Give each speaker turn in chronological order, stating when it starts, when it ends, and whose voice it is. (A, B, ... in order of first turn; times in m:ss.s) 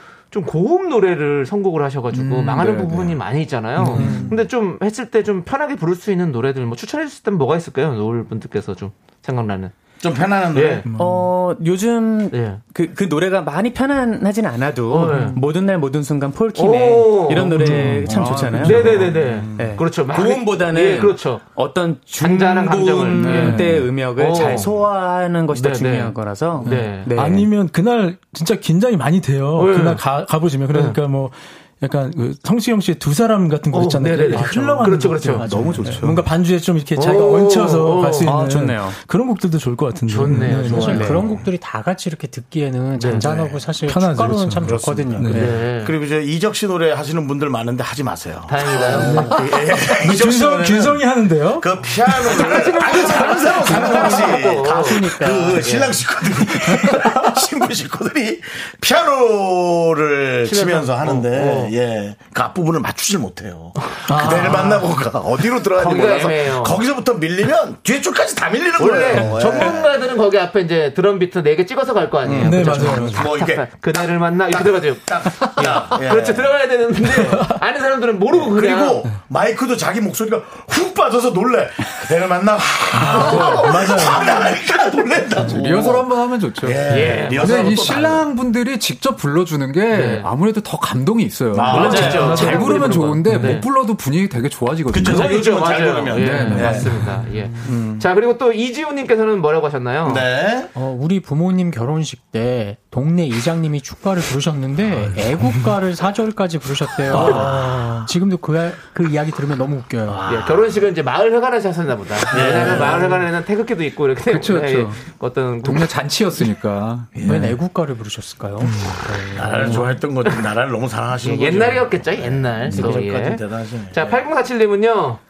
0:00.3-0:09.7 A
0:02.1-0:03.2 B
0:03.8-0:04.4 C
0:04.0-0:04.3 D
0:04.0-0:04.4 E
0:10.0-0:10.9 E
0:10.5-0:10.9 A
0:10.9-0:11.3 C
0:11.0-0:27.5 F
0:12.3-0:12.6 A
0:14.9-0:15.4 A
0:16.6-0:21.4 A
0:17.3-0:19.2 C
0:18.2-0:18.8 B
0:19.2-0:19.6 E
0:20.2-0:20.7 E
0:22.2-0:24.7 A
0:23.1-0:23.7 B
0:23.2-0:23.9 C
0:25.5-0:27.1 A
0:26.6-0:41.2 C
0:29.6-0:30.0 A
0:30.7-0:31.0 A
0:33.7-0:35.5 A
0:34.3-0:35.4 D
0:35.4-0:36.2 B
0:37.0-0:38.3 A
0:38.2-0:39.0 F
0:40.1-0:41.2 A
0:40.5-0:45.6 D
0:40.8-0:41.2 F
0:43.0-0:43.3 A
0:43.2-0:43.6 E
0:43.8-0:45.6 C
0:44.6-1:09.9 E
0:45.3-0:45.9 A
0:48.5-0:49.4 A
0:48.9-0:51.7 C
0:52.2-0:56.0 A
0:53.6-0:55.7 D
0:53.7-0:54.2 C
1:00.4-1:01.7 A
1:04.1-1:04.8 C
1:04.2-1:04.8 A
1:05.8-1:06.8 A
1:05.8-1:06.3 F
1:08.8-1:19.0 A
1:12.3-1:13.3 C
1:13.1-1:13.7 E
1:14.5-1:16.5 E
1:18.3-1:28.3 E
1:22.9-1:24.5 C
1:23.3-1:23.6 A
1:25.5-1:35.4 B
1:26.9-1:27.8 A
1:29.9-1:30.3 A
1:31.5-1:32.3 E
1:31.6-1:33.2 F
1:31.7-1:33.7 A
1:32.0-1:32.6 C
1:33.2-1:33.6 C
1:34.9-1:36.9 E
1:35.0-1:40.3 A
1:36.2-1:37.2 B
1:37.6-1:38.1 E
1:40.0-1:40.7 E
1:40.8-1:50.3 D
1:47.1-1:48.1 E
1:50.0-1:50.8 E
1:50.3-1:55.9 A
1:52.3-1:53.2 E
1:52.4-1:52.9 D
1:54.3-1:55.0 B
1:55.6-1:57.6 B
1:57.2-1:57.5 E
1:57.2-2:00.0 D
1:59.3-2:04.2 E
1:59.6-2:00.4 A
2:01.2-2:05.2 A
2:02.7-2:03.0 D